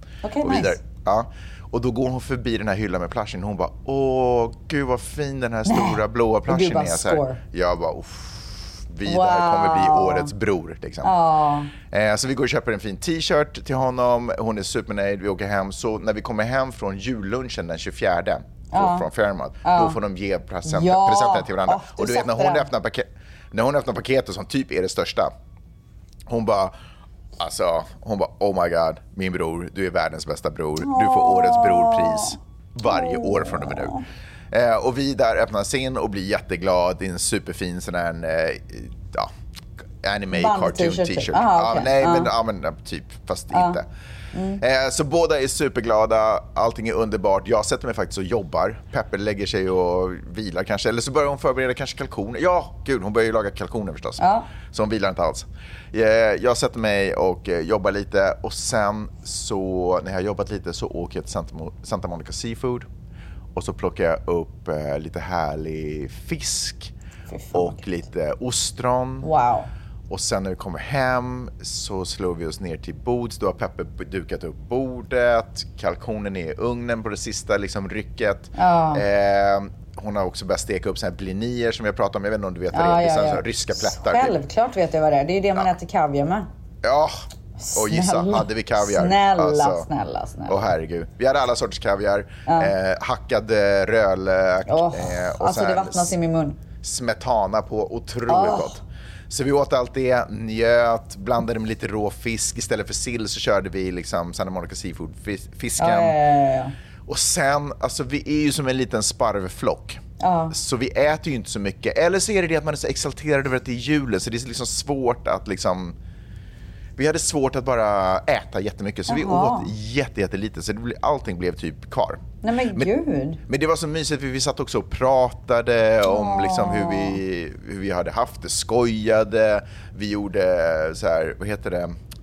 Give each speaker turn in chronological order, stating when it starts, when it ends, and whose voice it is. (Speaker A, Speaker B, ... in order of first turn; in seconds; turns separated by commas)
Speaker A: 0.2-0.8, Speaker B: 0.4-11.1, Speaker A: 5.7-7.4, Speaker A: 9.0-10.3, Speaker A: 11.0-11.7, Speaker B: 11.8-25.3, Speaker A: 18.7-19.1, Speaker A: 19.6-20.0, Speaker A: 20.6-22.7, Speaker B: 26.3-26.7, Speaker B: 27.4-34.0, Speaker A: 30.8-34.0, Speaker B: 34.5-39.3, Speaker B: 40.0-43.9, Speaker A: 40.3-42.3, Speaker A: 43.5-43.8, Speaker A: 44.3-44.6, Speaker B: 44.6-62.9, Speaker A: 54.2-54.5, Speaker B: 63.5-66.9, Speaker A: 67.3-67.8, Speaker B: 67.5-69.3, Speaker A: 69.2-69.7, Speaker B: 70.1-84.4, Speaker A: 78.5-79.0, Speaker A: 82.7-86.5, Speaker B: 86.8-87.2, Speaker A: 87.6-90.6, Speaker B: 87.7-89.9, Speaker B: 90.5-96.1, Speaker A: 92.5-92.7, Speaker A: 94.7-96.6, Speaker B: 96.8-106.2, Speaker A: 98.3-98.8, Speaker A: 105.8-106.7, Speaker B: 107.1-116.0, Speaker A: 110.2-110.5, Speaker B: 117.0-122.9, Speaker A: 119.1-119.7, Speaker A: 122.4-123.4, Speaker B: 123.5-132.0, Speaker A: 126.0-127.2